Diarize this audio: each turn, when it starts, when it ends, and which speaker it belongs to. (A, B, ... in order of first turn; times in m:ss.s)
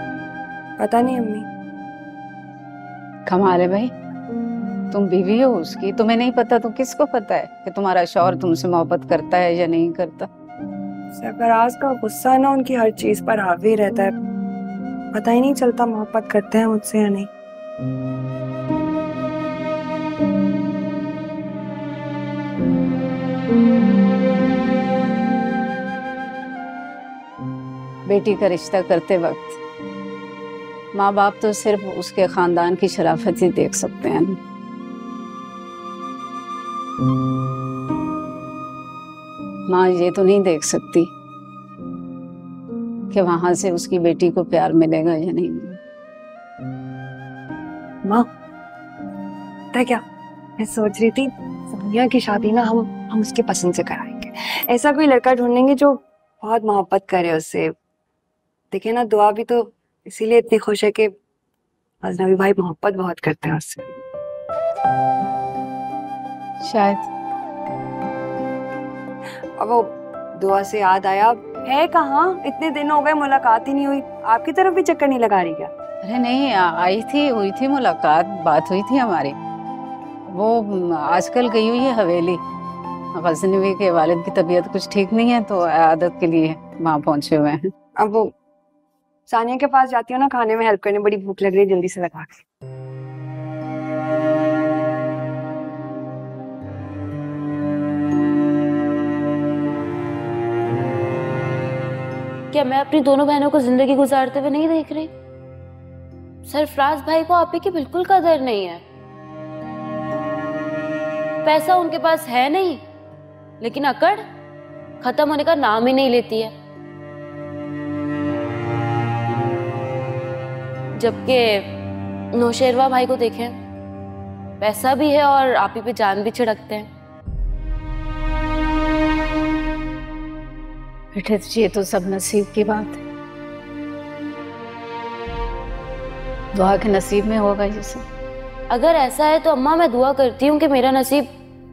0:00.8-0:01.5 A
0:03.3-0:03.9 B
0:04.9-0:10.3 B
0:11.1-0:14.1 A
0:15.1-0:17.3 A
0:28.1-0:29.6 B
0:30.9-0:34.4 B
0:39.7-0:41.1 B
0:43.1-0:45.8 B
0:49.7-0:50.0 A
0:50.6-0:57.7 A
0:58.7-1:01.1 A
1:02.0-1:04.0 A
1:06.6-1:07.1 B
1:09.6-1:15.7 A
1:16.0-1:19.4 B
1:20.3-1:22.4 B
1:23.2-1:27.7 B
1:28.0-1:28.3 A
1:29.3-1:32.4 A
1:42.5-1:45.1 C
1:46.5-1:48.8 C
1:51.4-1:52.8 C
1:53.6-1:54.2 C
1:55.0-1:56.5 C
2:01.0-2:01.6 C
2:02.4-2:03.6 C
2:04.6-2:06.9 C
2:11.1-2:13.0 B
2:16.5-2:18.0 B
2:18.7-2:21.3 C